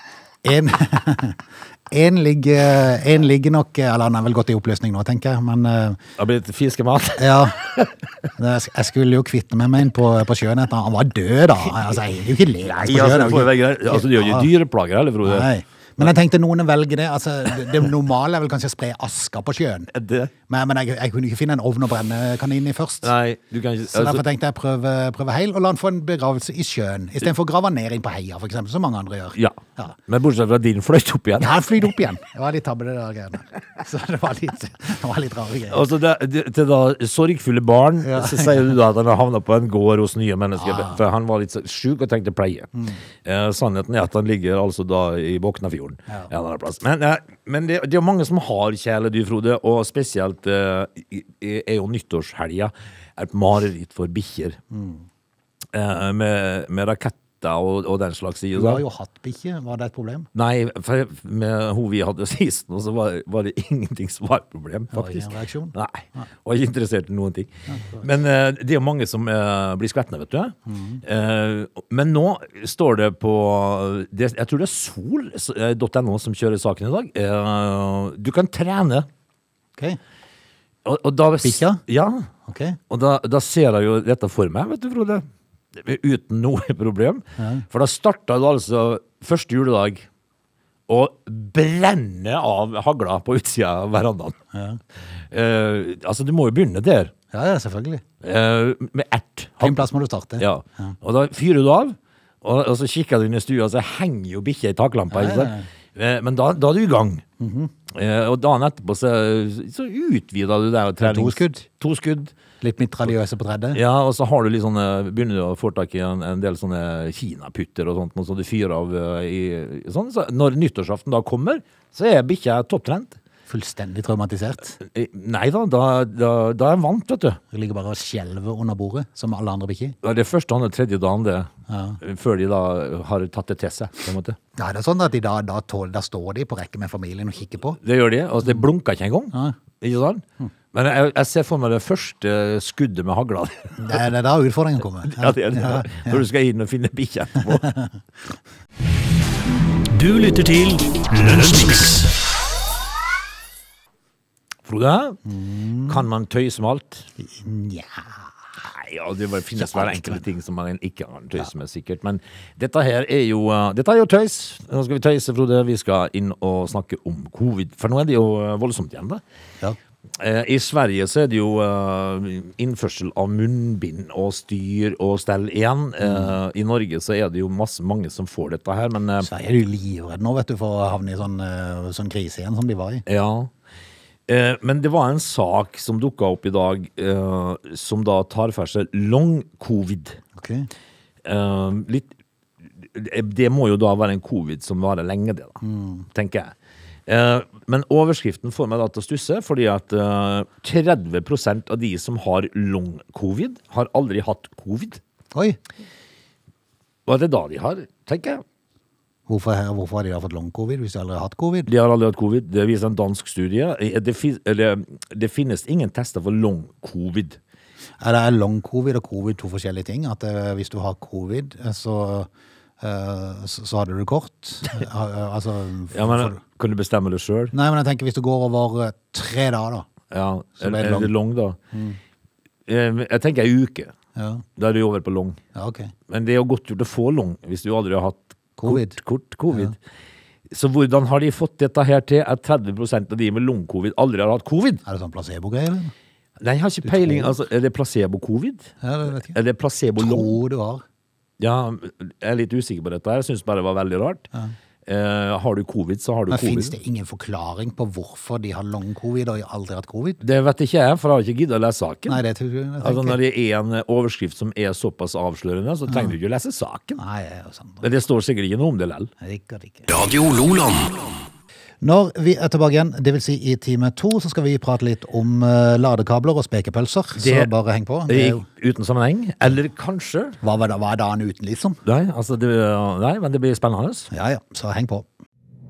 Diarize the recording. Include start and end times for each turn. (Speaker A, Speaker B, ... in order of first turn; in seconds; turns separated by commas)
Speaker A: 0.4-6.0, Speaker B: 6.2-7.9, Speaker A: 7.2-7.6, Speaker A: 8.4-14.5, Speaker B: 12.7-15.5, Speaker A: 15.2-19.9, Speaker B: 19.9-20.3, Speaker A: 20.5-23.1, Speaker B: 23.0-24.2, Speaker A: 23.9-29.9, Speaker B: 29.4-31.6, Speaker A: 31.4-35.8, Speaker B: 35.7-42.7, Speaker A: 38.0-38.7, Speaker A: 40.6-41.0, Speaker B: 43.2-54.6, Speaker A: 54.7-55.0, Speaker B: 55.7-58.8, Speaker A: 58.5-60.3, Speaker B: 60.3-79.1, Speaker A: 64.9-66.2, Speaker A: 67.7-68.0, Speaker A: 70.7-71.0, Speaker B: 80.8-82.3, Speaker A: 81.4-81.8, Speaker A: 82.5-82.8, Speaker B: 82.9-90.1, Speaker A: 87.4-87.6, Speaker B: 90.9-94.4, Speaker A: 94.5-94.8, Speaker B: 95.3-97.1, Speaker A: 97.3-98.0, Speaker B: 98.2-99.9, Speaker A: 99.6-101.0, Speaker B: 100.4-107.2, Speaker A: 105.1-105.7, Speaker A: 107.4-107.7, Speaker B: 107.9-112.3, Speaker A: 111.0-111.6, Speaker A: 112.6-113.8, Speaker B: 113.7-123.2, Speaker A: 123.5-124.8, Speaker B: 124.8-127.4, Speaker A: 127.5-130.0, Speaker B: 130.0-131.5, Speaker A: 131.7-132.0, Speaker B: 132.0-134.4, Speaker A: 134.6-137.8, Speaker B: 137.8-144.0, Speaker A: 143.8-146.2, Speaker B: 145.0-147.7, Speaker A: 147.6-147.9, Speaker C: 149.9-152.1, Speaker B: 154.7-155.2, Speaker A: 155.3-156.1, Speaker B: 155.9-157.1, Speaker A: 157.2-158.3, Speaker B: 158.6-169.2, Speaker A: 159.6-160.2, Speaker B: 170.2-179.3, Speaker A: 176.0-176.3, Speaker A: 179.2-183.0, Speaker B: 183.1-183.5, Speaker B: 184.3-190.2, Speaker A: 190.4-190.7, Speaker B: 191.2-192.1, Speaker B: 192.8-195.6, Speaker A: 195.6-196.1, Speaker B: 196.1-196.5, Speaker B: 197.1-205.0, Speaker B: 207.1-208.4, Speaker A: 209.3-211.7, Speaker B: 211.7-217.4, Speaker A: 218.0-222.3, Speaker A: 222.8-226.4, Speaker B: 225.9-227.5, Speaker A: 227.5-229.9, Speaker B: 230.1-231.6, Speaker A: 230.6-231.1, Speaker A: 231.7-232.0, Speaker B: 232.7-233.9, Speaker A: 234.2-234.4, Speaker B: 234.6-235.4, Speaker A: 235.6-235.9, Speaker B: 236.1-239.8, Speaker A: 238.6-239.0, Speaker B: 240.5-244.8, Speaker A: 244.9-245.9, Speaker B: 246.4-248.7, Speaker A: 246.8-247.3, Speaker A: 248.8-249.4, Speaker B: 249.2-250.3, Speaker A: 250.0-250.8, Speaker B: 251.4-254.3, Speaker B: 254.8-256.8, Speaker A: 256.3-260.2, Speaker B: 260.2-262.2, Speaker A: 262.1-263.2, Speaker B: 262.8-267.0, Speaker A: 265.9-266.1, Speaker A: 267.0-267.9, Speaker B: 267.8-269.1, Speaker A: 269.2-269.9, Speaker C: 269.9-271.1, Speaker A: 271.8-278.5, Speaker B: 277.2-277.5, Speaker B: 278.1-280.4, Speaker A: 280.4-281.8, Speaker B: 281.9-284.1, Speaker A: 284.1-285.1